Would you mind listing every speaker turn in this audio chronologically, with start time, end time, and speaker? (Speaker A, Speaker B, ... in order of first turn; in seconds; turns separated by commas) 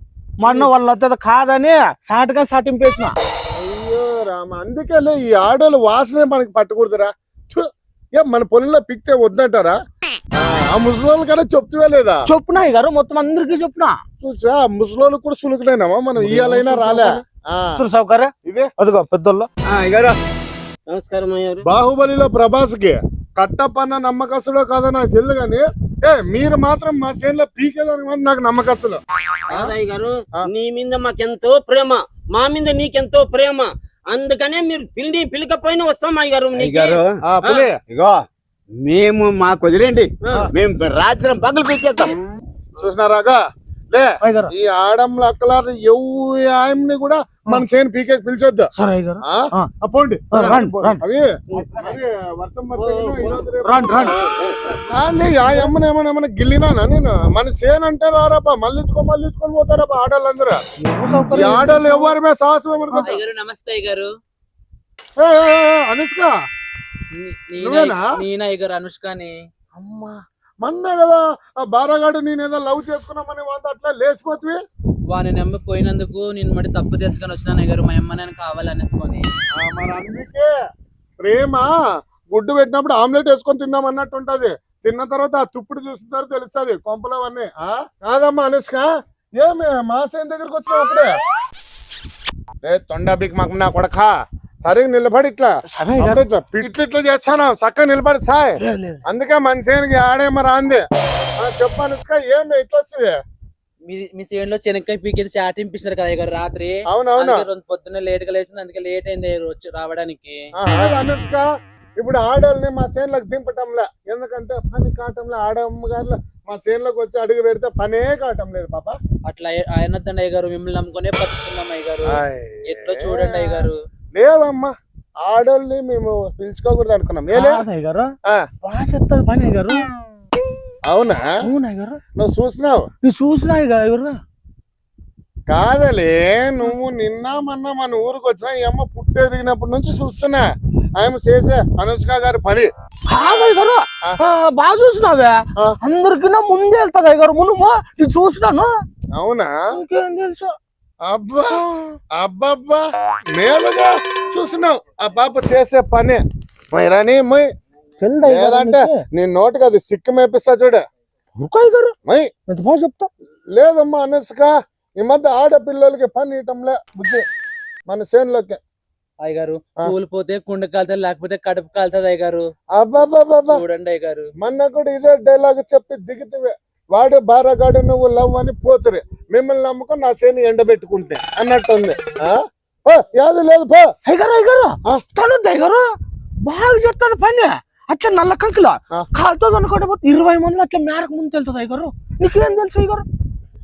Speaker A: 0.4-3.1, Speaker B: 0.4-0.7, Speaker B: 3.5-9.8, Speaker B: 10.3-12.2, Speaker A: 12.3-14.0, Speaker B: 14.2-17.8, Speaker A: 16.2-17.2, Speaker A: 17.8-19.5, Speaker B: 18.4-18.7, Speaker C: 19.6-20.1, Speaker D: 20.9-21.6, Speaker B: 21.6-29.0, Speaker D: 29.5-37.6, Speaker C: 36.5-37.1, Speaker B: 37.3-37.8, Speaker C: 37.9-38.2, Speaker C: 38.8-42.1, Speaker B: 42.8-43.4, Speaker B: 43.9-48.7, Speaker A: 44.2-44.5, Speaker A: 48.8-49.7, Speaker B: 49.2-54.1, Speaker A: 50.3-51.0, Speaker D: 51.5-51.9, Speaker D: 52.8-53.5, Speaker A: 53.6-54.1, Speaker B: 54.9-60.6, Speaker A: 60.8-62.1, Speaker B: 61.3-63.2, Speaker E: 63.2-64.1, Speaker B: 65.2-66.3, Speaker E: 67.2-69.3, Speaker B: 67.6-68.0, Speaker B: 69.8-74.6, Speaker E: 75.1-79.2, Speaker B: 79.5-80.5, Speaker B: 81.2-81.7, Speaker B: 82.3-91.2, Speaker B: 92.6-94.1, Speaker B: 94.6-100.8, Speaker A: 95.7-96.2, Speaker A: 98.6-99.0, Speaker B: 101.4-103.2, Speaker E: 103.9-110.4, Speaker B: 106.9-107.5, Speaker B: 110.6-111.5, Speaker B: 112.0-119.0, Speaker E: 119.2-122.2, Speaker B: 122.1-124.7, Speaker E: 122.7-123.8, Speaker B: 125.2-127.6, Speaker A: 127.3-129.8, Speaker B: 130.9-131.2, Speaker A: 131.4-132.0, Speaker B: 132.2-132.8, Speaker A: 133.0-134.2, Speaker B: 135.5-140.5, Speaker B: 141.0-142.7, Speaker A: 143.1-148.7, Speaker B: 149.2-149.5, Speaker A: 149.8-150.5, Speaker B: 151.1-151.6, Speaker A: 151.5-151.9, Speaker B: 152.2-152.8, Speaker B: 153.3-157.5, Speaker A: 158.0-159.0, Speaker B: 158.2-160.8, Speaker A: 161.4-161.9, Speaker A: 162.5-163.1, Speaker B: 163.5-167.2, Speaker B: 167.9-168.6, Speaker E: 169.2-172.4, Speaker B: 172.7-173.6, Speaker E: 173.5-174.3, Speaker B: 174.4-183.9, Speaker A: 184.1-185.8, Speaker A: 186.4-193.1